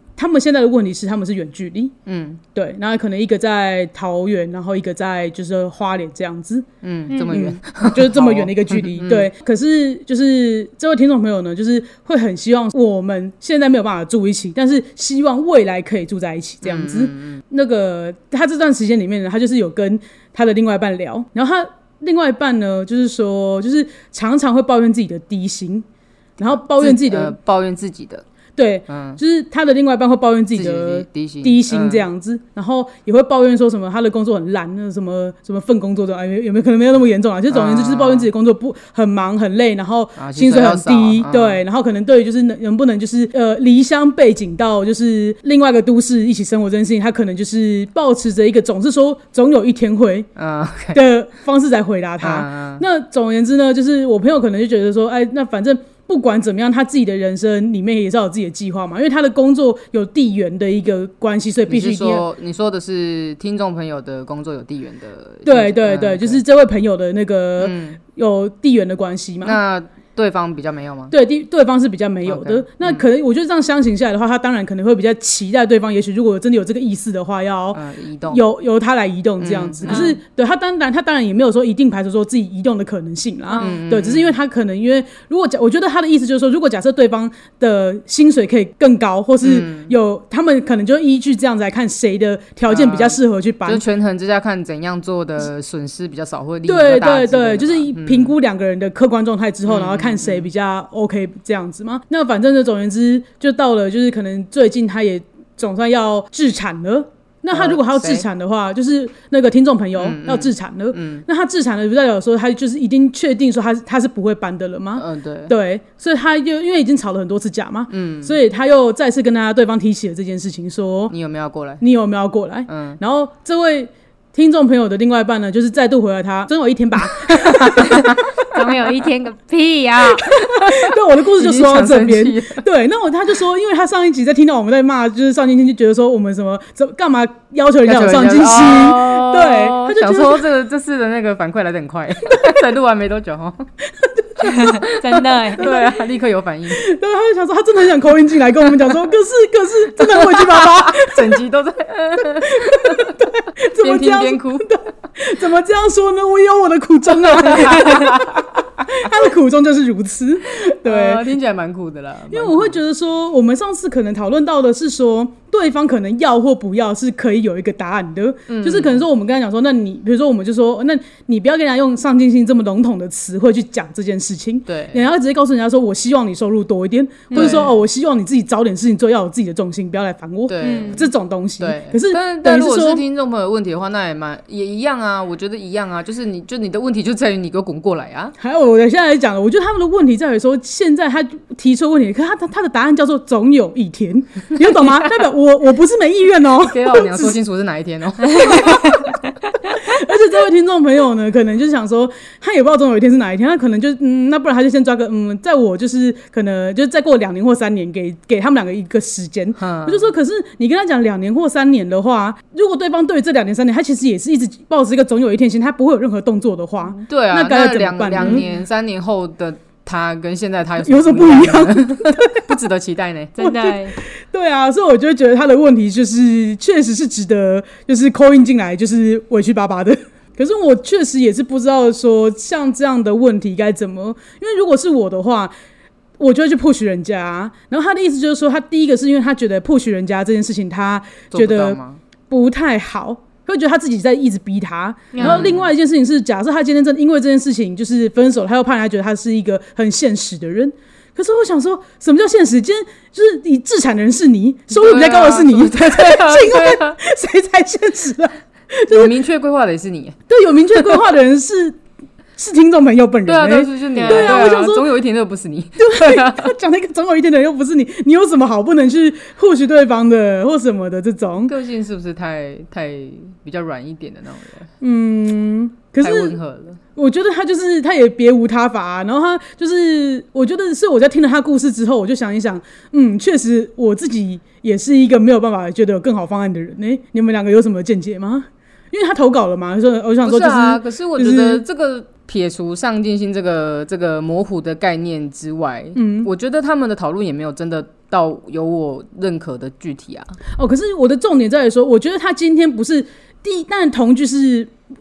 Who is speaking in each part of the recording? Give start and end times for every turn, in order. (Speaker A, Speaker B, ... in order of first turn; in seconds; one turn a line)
Speaker A: 0.2-1.9
Speaker B: 2.1-2.4
Speaker A: 2.5-6.7
Speaker B: 6.8-9.3
Speaker C: 7.1-7.4
Speaker A: 7.3-25.9
Speaker B: 16.6-17.4
Speaker A: 26.4-27.4
Speaker B: 26.5-28.2
Speaker A: 28.6-50.3
Speaker B: 28.9-29.2
Speaker B: 30.5-32.0
Speaker B: 37.5-38.3
Speaker B: 40.2-41.6
Speaker B: 50.4-51.0
Speaker A: 50.9-62.3
Speaker B: 52.2-52.8
Speaker B: 61.7-66.4
Speaker A: 65.5-69.6
Speaker B: 67.6-68.0
Speaker B: 69.4-71.1
Speaker A: 71.1-77.8
Speaker B: 72.3-73.1
Speaker B: 77.7-78.4
Speaker A: 78.3-93.8
Speaker B: 79.4-80.2
Speaker C: 79.9-80.2
Speaker C: 83.5-83.8
Speaker B: 83.6-84.4
Speaker B: 89.4-89.9
Speaker B: 92.7-98.3
Speaker A: 96.7-121.1
Speaker B: 99.7-100.5
Speaker B: 107.5-108.3
Speaker B: 110.0-111.2
Speaker B: 115.0-115.5
Speaker B: 117.9-118.4
Speaker B: 121.1-121.8
Speaker A: 121.8-128.1
Speaker B: 122.7-123.0
Speaker B: 127.3-128.2
Speaker C: 128.4-130.4
Speaker A: 130.3-140.4
Speaker B: 130.4-130.8
Speaker B: 131.3-132.6
Speaker B: 137.8-143.7
Speaker A: 144.0-144.8
Speaker C: 144.4-145.7
Speaker B: 144.5-146.8
Speaker A: 145.6-146.0
Speaker A: 146.8-151.4
Speaker B: 150.0-153.2
Speaker A: 152.2-161.2
Speaker B: 153.7-154.7
Speaker B: 157.4-158.4
Speaker B: 160.8-162.8
Speaker A: 162.3-183.0
Speaker B: 168.5-169.0
Speaker B: 174.7-175.0
Speaker C: 177.3-177.7
Speaker B: 177.3-177.7
Speaker B: 180.5-181.1
Speaker C: 180.6-181.1
Speaker B: 181.6-188.3
Speaker A: 188.4-197.4
Speaker B: 196.6-199.0
Speaker A: 198.5-198.9
Speaker A: 199.8-218.4
Speaker B: 209.6-210.1
Speaker B: 216.9-223.4
Speaker C: 218.2-218.5
Speaker A: 220.8-222.5
Speaker C: 223.4-224.0
Speaker A: 223.4-235.5
Speaker A: 236.2-241.8
Speaker B: 241.3-242.0
Speaker A: 242.3-259.1
Speaker C: 245.1-245.5
Speaker B: 245.2-245.7
Speaker B: 254.7-257.0
Speaker B: 258.9-260.2
Speaker A: 260.3-261.8
Speaker A: 262.4-264.9
Speaker B: 263.3-266.5
Speaker C: 264.0-264.6
Speaker A: 265.8-271.5
Speaker B: 271.4-274.7
Speaker A: 274.8-276.4
Speaker B: 276.0-276.8
Speaker A: 277.0-291.6
Speaker B: 290.2-300.4
Speaker A: 295.9-296.3
Speaker A: 300.6-304.7